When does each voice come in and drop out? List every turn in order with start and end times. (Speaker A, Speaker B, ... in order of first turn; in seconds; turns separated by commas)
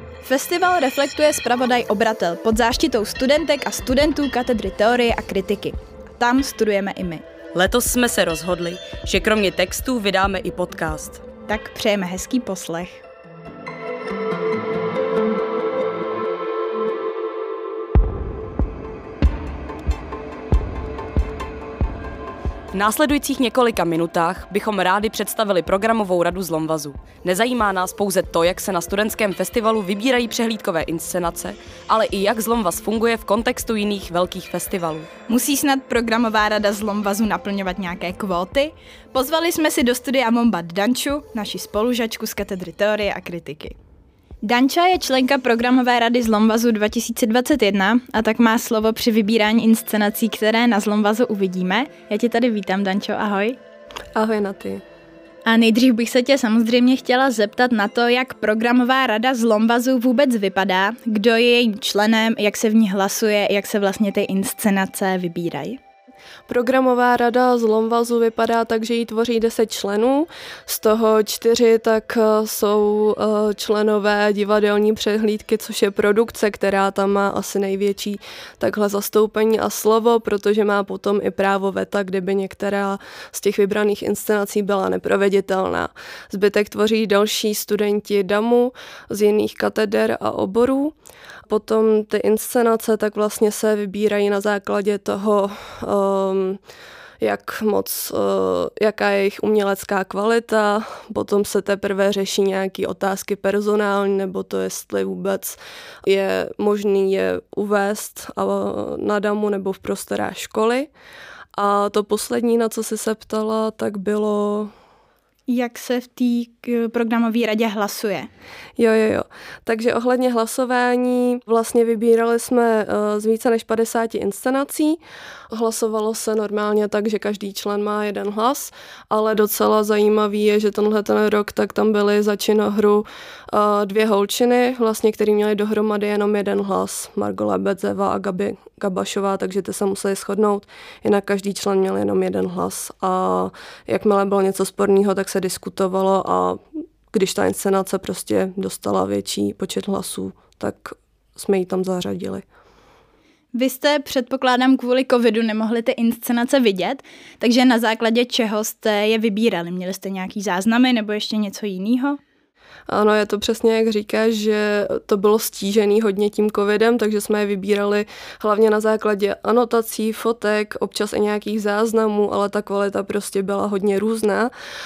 Speaker A: 0.2-7.2, Speaker B: 7.5-11.2, Speaker A: 11.4-13.0, Speaker B: 22.7-35.1, Speaker A: 35.3-43.7, Speaker A: 44.4-53.6, Speaker C: 54.1-54.8, Speaker A: 55.5-65.8, Speaker C: 66.5-90.9, Speaker C: 91.5-96.6, Speaker C: 97.2-110.9, Speaker C: 111.5-114.7, Speaker A: 115.5-118.3, Speaker C: 118.8-125.0, Speaker C: 125.5-146.6, Speaker C: 147.1-152.4, Speaker A: 153.5-162.2, Speaker C: 162.9-174.5